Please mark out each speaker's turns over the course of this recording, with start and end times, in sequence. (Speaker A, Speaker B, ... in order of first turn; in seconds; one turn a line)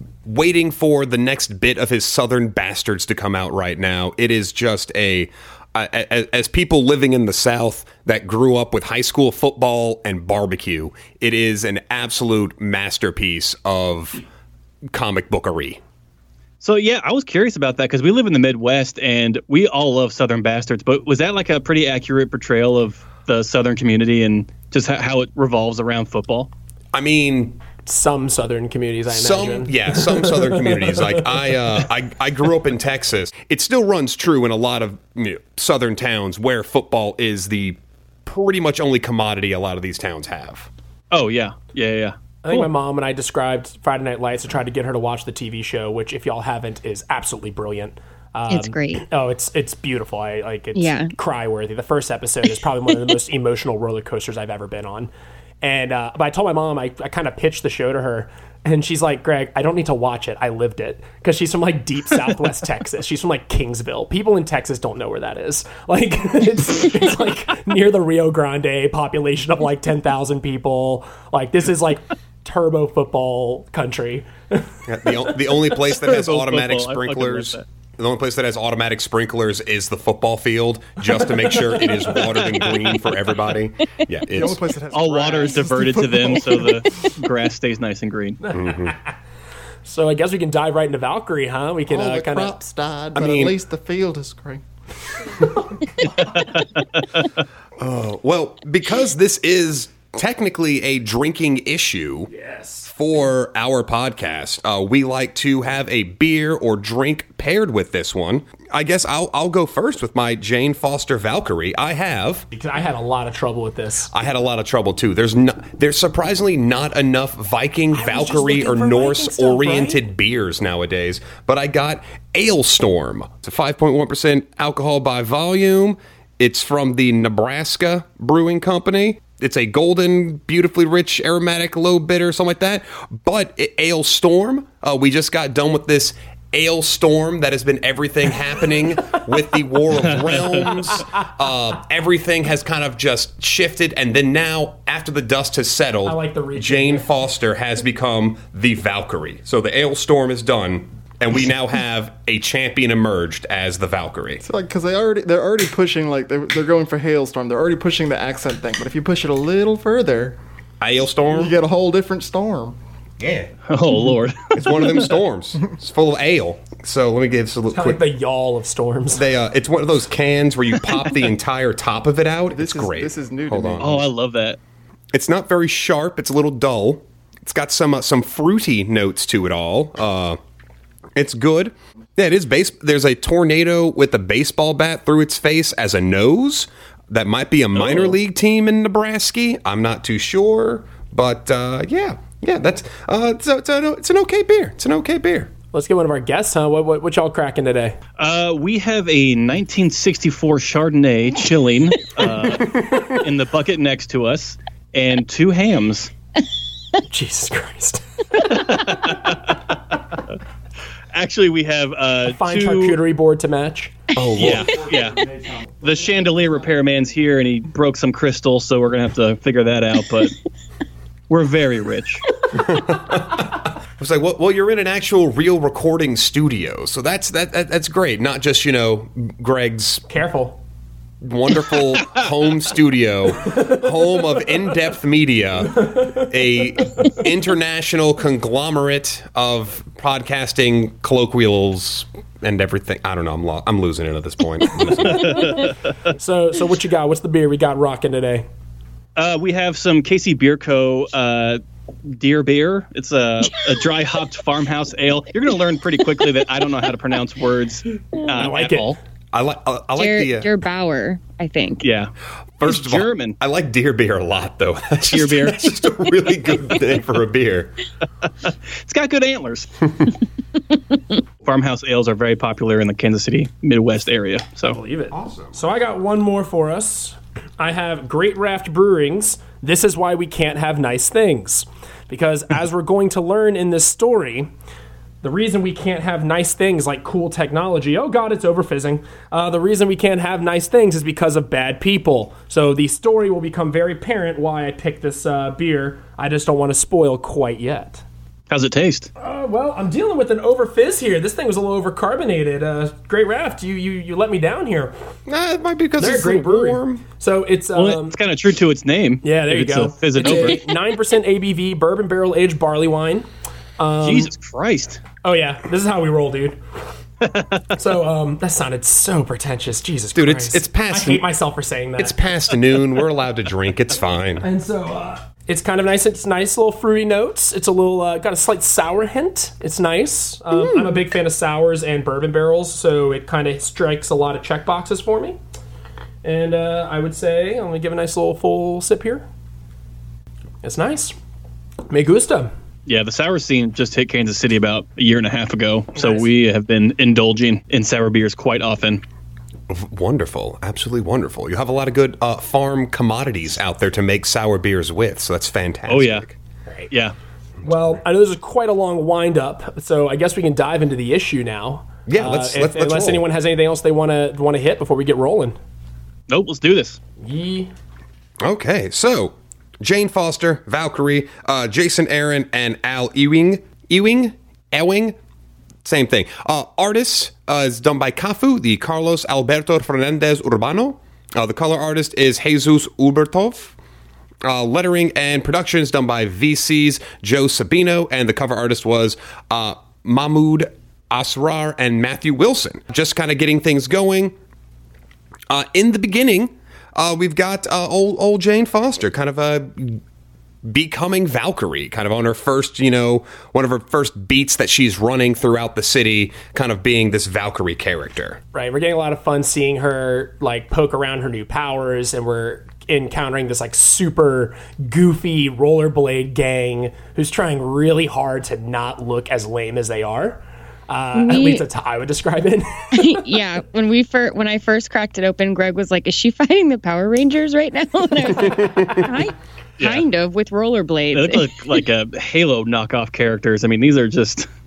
Speaker A: 0.2-14.2
Speaker A: 14.9-15.8
Speaker B: 16.6-26.5
Speaker A: 26.9-27.6
Speaker C: 27.9-31.3
Speaker A: 29.1-40.7
Speaker B: 41.1-42.1
Speaker C: 42.4-75.3
Speaker D: 48.5-49.0
Speaker D: 50.8-51.1
Speaker A: 74.9-84.6
Speaker B: 75.8-77.6
Speaker B: 82.1-83.0
Speaker E: 84.3-86.9
Speaker B: 84.9-88.4
Speaker C: 88.4-89.1
Speaker A: 88.5-89.0
Speaker C: 89.8-92.6
Speaker E: 91.9-94.6
Speaker A: 93.2-93.6
Speaker B: 96.2-97.3
Speaker A: 97.8-102.3
Speaker C: 102.3-102.9
Speaker A: 102.9-112.5
Speaker C: 112.5-114.1
Speaker A: 114.1-154.4
Speaker C: 117.9-120.0
Speaker B: 140.1-140.7
Speaker C: 146.1-147.1
Speaker E: 154.4-160.4
Speaker A: 160.8-161.5
Speaker E: 161.3-162.8
Speaker A: 163.2-163.5
Speaker B: 163.7-165.0
Speaker A: 164.5-168.0
Speaker C: 167.7-169.2
Speaker A: 169.1-174.0
Speaker E: 172.5-174.1
Speaker B: 173.8-174.6
Speaker A: 175.1-180.4
Speaker A: 181.2-195.5
Speaker B: 187.8-188.2
Speaker C: 195.7-198.0
Speaker B: 198.2-206.1
Speaker C: 207.1-209.3
Speaker B: 208.5-209.6
Speaker B: 211.1-213.0
Speaker C: 212.3-214.1
Speaker A: 214.1-214.8
Speaker B: 214.4-215.2
Speaker B: 215.8-220.4
Speaker B: 221.3-222.2
Speaker A: 222.5-230.0
Speaker C: 230.1-230.6
Speaker A: 231.2-245.5
Speaker C: 233.5-233.8
Speaker C: 235.8-236.2
Speaker B: 245.1-245.7
Speaker C: 246.2-248.5
Speaker B: 249.2-259.0
Speaker C: 258.4-258.9
Speaker A: 259.3-260.5
Speaker D: 260.0-261.8
Speaker B: 261.8-262.1
Speaker A: 262.6-267.8
Speaker B: 262.6-263.4
Speaker B: 265.1-265.8
Speaker B: 268.4-269.9
Speaker B: 271.4-274.8
Speaker C: 274.6-284.5
Speaker A: 275.1-275.6
Speaker C: 285.2-298.0
Speaker B: 298.5-299.1
Speaker C: 299.2-305.0
Speaker A: 305.3-307.0
Speaker C: 306.0-308.2
Speaker B: 307.7-310.7
Speaker C: 309.2-314.3
Speaker B: 314.0-315.0
Speaker C: 315.2-316.6
Speaker B: 317.2-317.6
Speaker C: 317.7-322.2
Speaker A: 320.1-321.3
Speaker A: 322.0-324.5
Speaker C: 324.4-335.4
Speaker A: 330.5-331.0
Speaker C: 336.2-339.3
Speaker C: 340.6-341.1
Speaker C: 341.9-342.5
Speaker B: 342.9-349.0
Speaker C: 346.0-346.3
Speaker A: 349.7-356.4
Speaker B: 355.9-356.2
Speaker C: 357.6-365.6
Speaker A: 362.1-363.2
Speaker B: 366.3-367.0
Speaker C: 367.2-367.7
Speaker A: 368.4-375.2
Speaker A: 375.9-383.8
Speaker A: 384.4-394.3
Speaker A: 395.5-400.0
Speaker A: 400.6-408.4
Speaker C: 408.5-423.3
Speaker D: 421.1-421.6
Speaker D: 422.9-431.5
Speaker A: 428.4-429.1
Speaker B: 429.8-430.1
Speaker B: 431.1-434.5